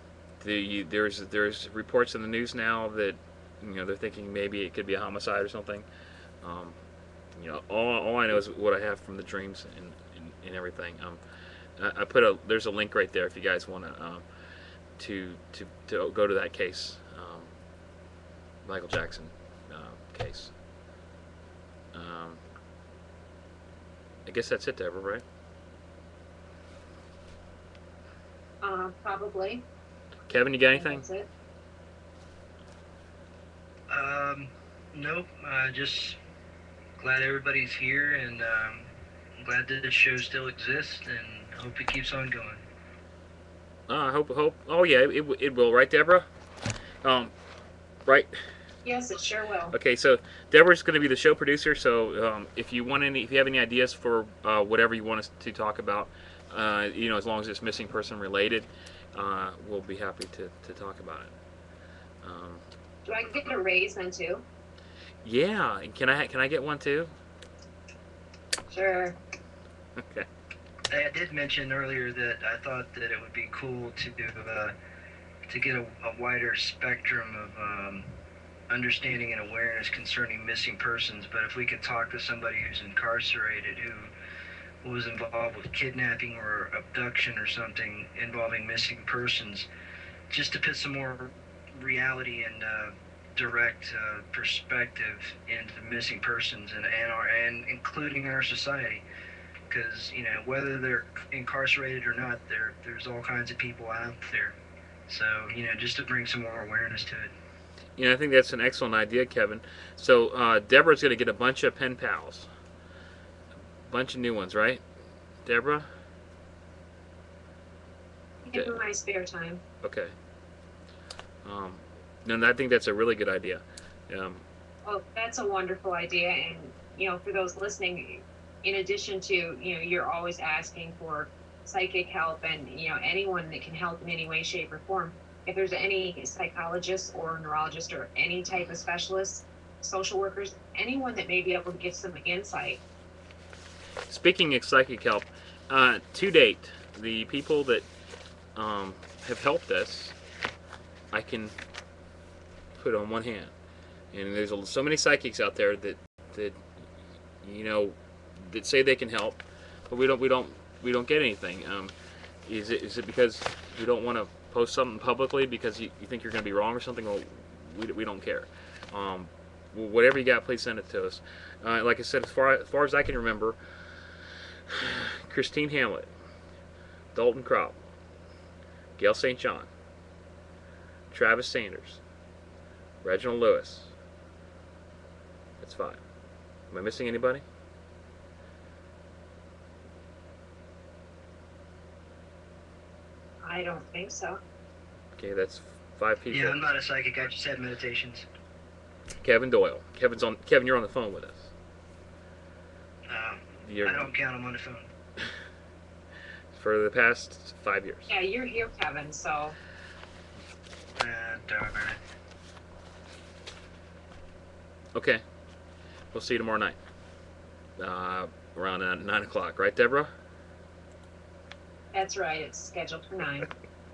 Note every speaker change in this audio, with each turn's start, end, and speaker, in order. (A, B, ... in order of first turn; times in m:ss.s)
0:00.4-0:05.8 A
0:06.4-0:06.8 A
0:07.4-0:11.2 A
0:11.8-0:14.2 A
0:15.0-0:17.5 A
0:18.6-0:20.5 A
0:21.9-0:22.4 A
0:24.2-0:25.2 A
0:28.6-0:29.6 B
0:30.3-0:31.0 A
0:30.7-0:31.3 B
0:33.9-0:36.2 C
0:37.0-0:42.6 C
0:43.9-0:46.3 A
0:47.0-0:47.3 A
0:48.0-0:48.3 A
0:48.8-0:49.7 B
0:49.7-1:01.3 A
1:02.2-1:02.6 A
1:03.0-1:04.4 B
1:05.2-1:07.1 A
1:08.7-1:09.2 B
1:10.0-1:10.3 A
1:10.9-1:14.7 C
1:15.5-1:18.1 C
1:18.7-1:24.1 C
1:24.8-1:29.7 C
1:30.3-1:39.0 C
1:39.7-1:44.6 C
1:45.1-1:47.3 C
1:48.0-1:52.5 A
1:53.8-1:54.8 A
1:55.4-1:55.9 A
1:58.4-1:59.6 B
1:59.8-2:00.1 A
2:01.4-2:04.4 A
2:04.8-2:22.8 B
2:24.1-2:27.8 A
2:28.6-2:30.1 A
2:31.1-2:31.5 A
2:32.8-2:33.5 A
2:34.1-2:36.6 A
2:37.4-2:41.9 A
2:42.4-2:53.6 A
2:54.7-2:56.1 A
2:57.1-2:57.8 A
2:59.0-2:59.7 A
3:01.1-3:02.0 A
3:03.0-3:03.9 A
3:05.6-3:06.0 A
3:06.7-3:07.4 A
3:13.4-3:14.4 B
3:15.2-3:16.6 A
3:16.3-3:18.2 C
3:19.2-3:21.5 A
3:23.1-3:24.9 C
3:23.6-3:24.1 A
3:26.5-3:28.1 A
3:28.1-3:29.6 B
3:31.0-3:32.0 C
3:34.9-3:35.2 A
3:36.1-3:36.8 A
3:37.8-3:40.1 A
3:41.9-3:43.5 B